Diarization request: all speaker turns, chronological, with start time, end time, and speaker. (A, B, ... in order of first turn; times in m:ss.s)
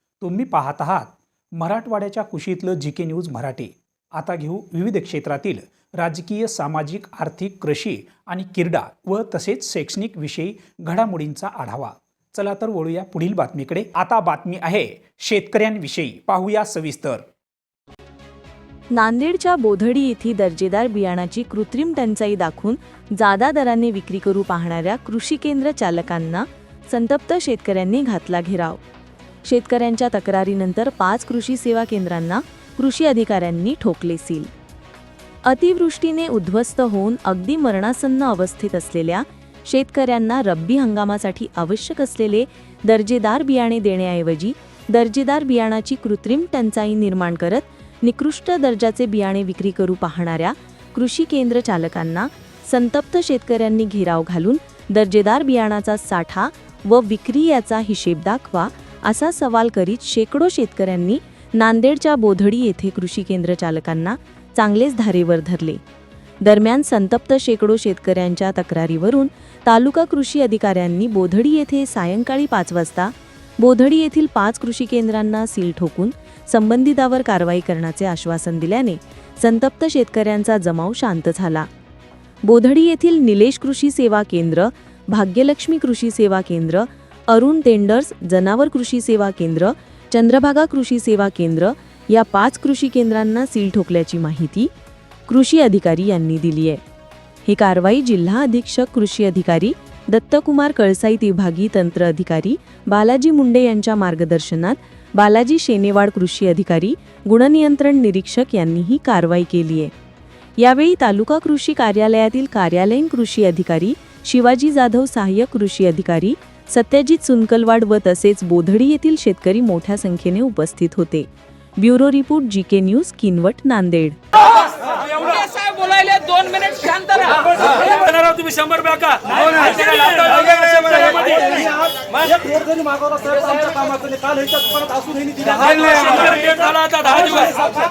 0:00.2-0:17.2 A
0:18.9-0:28.8 B
0:29.4-0:34.5 B
0:35.4-1:05.8 B
1:06.4-1:21.7 B
1:22.4-1:34.7 B
1:35.3-1:36.8 B
1:37.4-1:49.9 B
1:50.6-2:04.2 B
2:04.4-2:07.5 C
2:07.5-2:12.5 D
2:12.4-2:15.6 E
2:15.4-2:17.6 D